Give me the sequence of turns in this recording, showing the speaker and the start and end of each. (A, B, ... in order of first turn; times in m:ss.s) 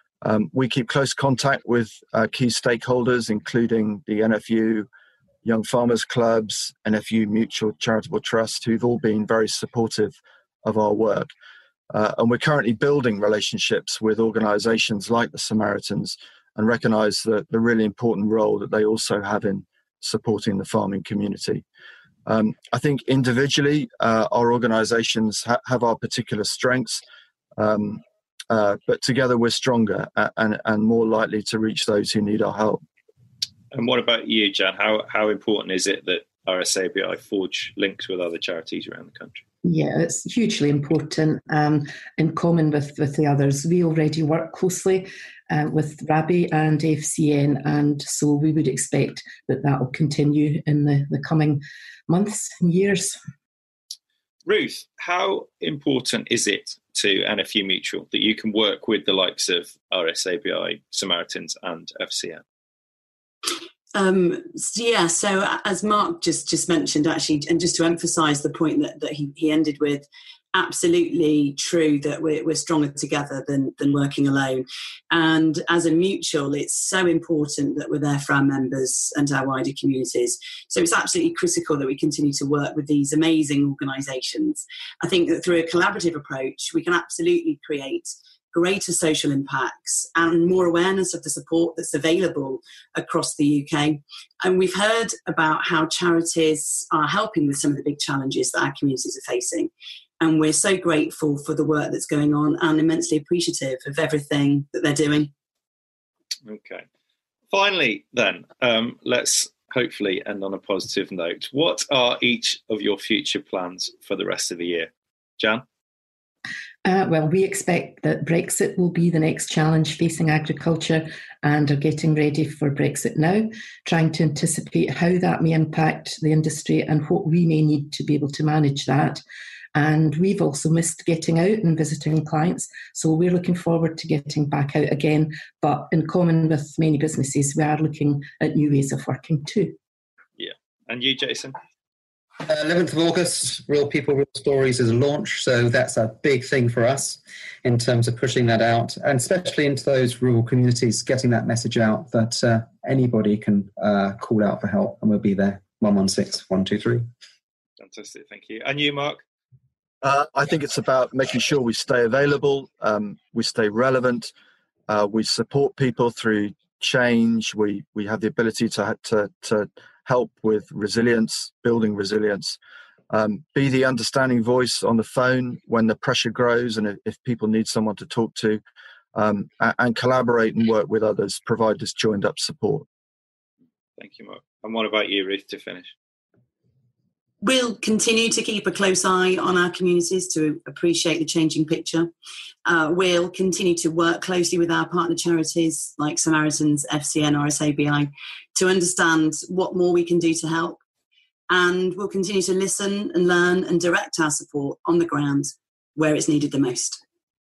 0:00.2-0:04.9 A
0:05.4-0:11.3 A
0:11.9-0:21.6 A
0:22.3-0:27.0 A
0:27.6-0:32.8 A
0:33.7-0:39.4 B
0:39.6-0:53.2 C
0:54.5-1:02.4 B
1:04.0-1:45.3 D
1:46.4-1:46.8 B
1:47.5-1:55.6 B
1:56.8-2:09.2 C
2:09.8-2:19.8 C
2:20.4-2:21.6 B
2:22.4-2:37.1 E
2:37.8-2:39.2 B
2:40.0-2:44.3 A
2:44.9-2:52.6 A
2:53.1-2:58.6 A
2:59.2-3:02.9 A
3:04.0-3:05.9 B
3:07.4-3:12.1 D
3:12.7-3:20.8 D
3:21.5-3:27.0 D